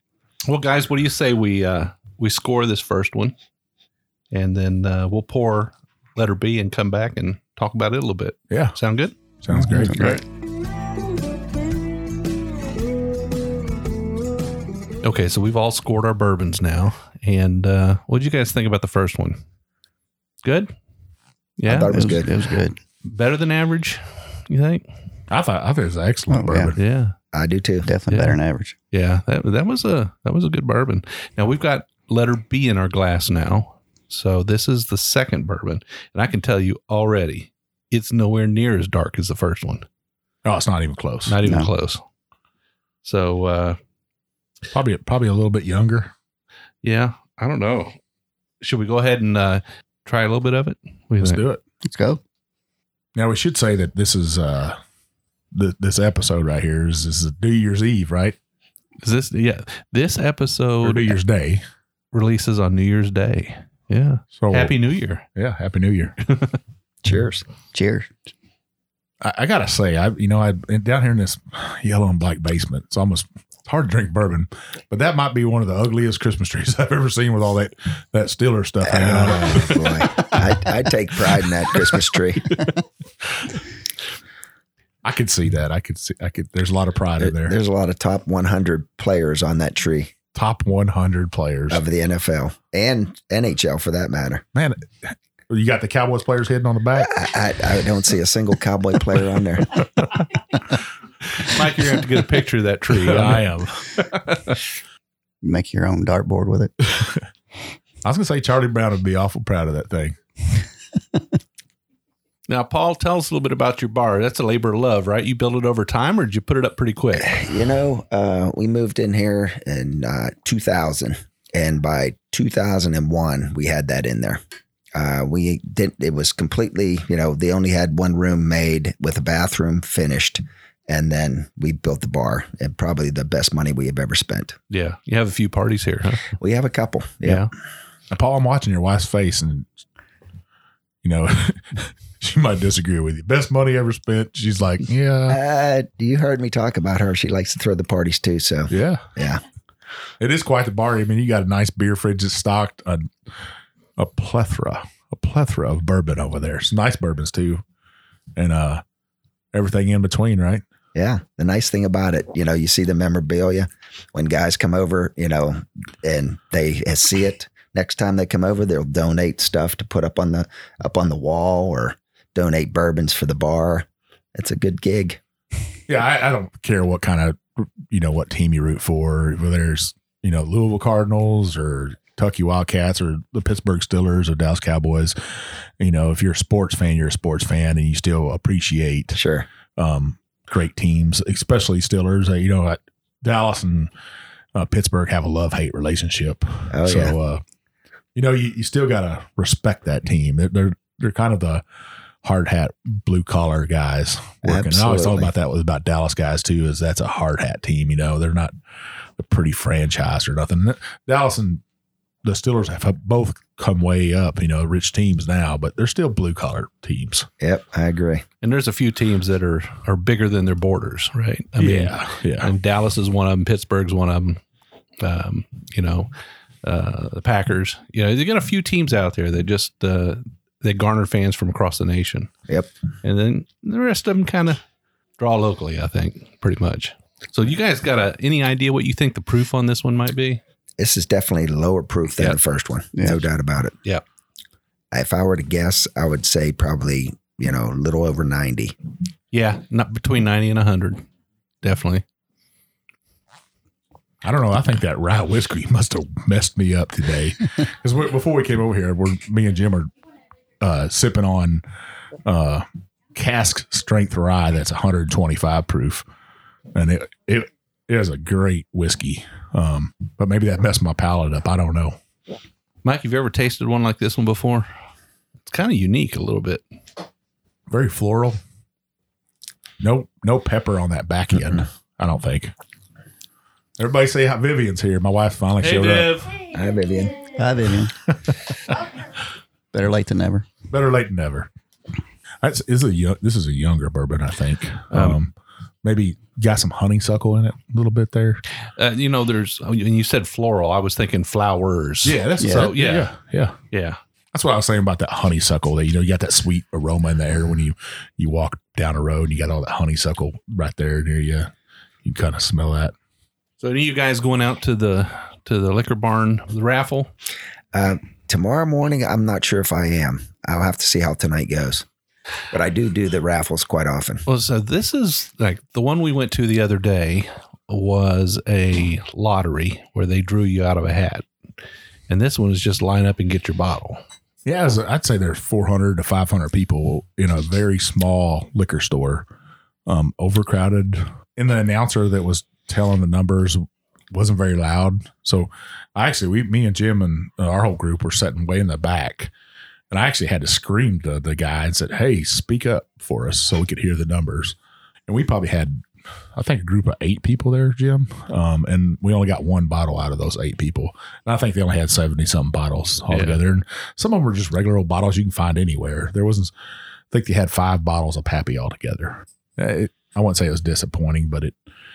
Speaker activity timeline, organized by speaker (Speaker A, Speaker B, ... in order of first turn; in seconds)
Speaker A: 0.5-3.4, 4.3-9.2, 9.8-10.2, 15.0-19.4, 20.4-20.7, 21.6-22.2, 23.0-24.8, 26.8-27.1, 28.1-28.4, 28.9-39.9, 41.3-42.0, 43.0-43.8, 46.8-48.0, 48.6-51.4, 59.0-61.2, 62.1-65.2, 66.3-66.6, 101.4-104.6, 112.5-117.4, 134.7-136.3, 137.2-137.5, 218.4-224.4, 225.0-226.1, 226.6-232.3, 233.0-234.6, 235.2-240.4, 249.3-251.0, 251.6-252.0, 272.8-274.7, 275.5-276.6, 285.6-286.4, 298.8-303.1, 303.7-304.0, 313.6-317.1, 324.3-331.3, 332.1-334.0, 363.1-363.4
Speaker B: 8.5-8.8, 9.4-10.2, 25.3-26.8, 40.5-41.4, 44.7-46.1, 51.2-51.6, 53.1-54.8, 55.5-58.4, 60.8-61.6, 64.4-64.8, 65.3-66.2, 69.2-79.9, 85.0-87.6, 90.3-91.8, 94.5-97.2, 103.0-103.9, 108.0-110.2, 138.1-139.7, 141.0-145.4, 148.7-149.1, 150.2-153.1, 154.0-157.6, 158.4-158.8, 159.5-160.6, 175.9-185.2, 185.8-189.2, 189.8-193.9, 194.6-197.4, 198.2-201.6, 202.2-208.5, 209.2-211.6, 212.2-217.3, 221.6-222.5, 254.2-259.9, 260.6-261.6, 262.2-266.1, 266.8-272.0, 277.7-278.4, 279.8-282.5, 283.8-286.1, 290.7-291.5, 292.4-298.4, 302.0-303.6, 304.3-311.5, 312.0-312.9, 334.5-339.3, 339.9-349.3, 349.9-354.6, 355.1-355.8, 356.4-366.5, 367.1-371.6
Speaker C: 9.5-10.2, 21.9-22.8, 26.3-26.7, 27.8-28.7, 41.4-41.7, 51.9-52.2, 67.7-68.1, 105.4-106.8, 243.0-243.2, 287.4-287.9, 289.7-290.5, 302.4-302.7
Speaker D: 21.7-22.3, 27.3-27.9, 67.0-67.4, 78.8-82.6, 87.2-90.1, 91.7-94.4, 97.0-99.8, 117.2-124.4, 125.0-134.6, 136.4-137.5, 145.3-149.4, 160.9-175.2, 189.2-189.5, 196.7-197.2, 204.4-205.3, 217.4-218.2, 240.8-243.7, 244.9-248.8, 286.5-287.4, 317.7-321.9, 322.5-324.2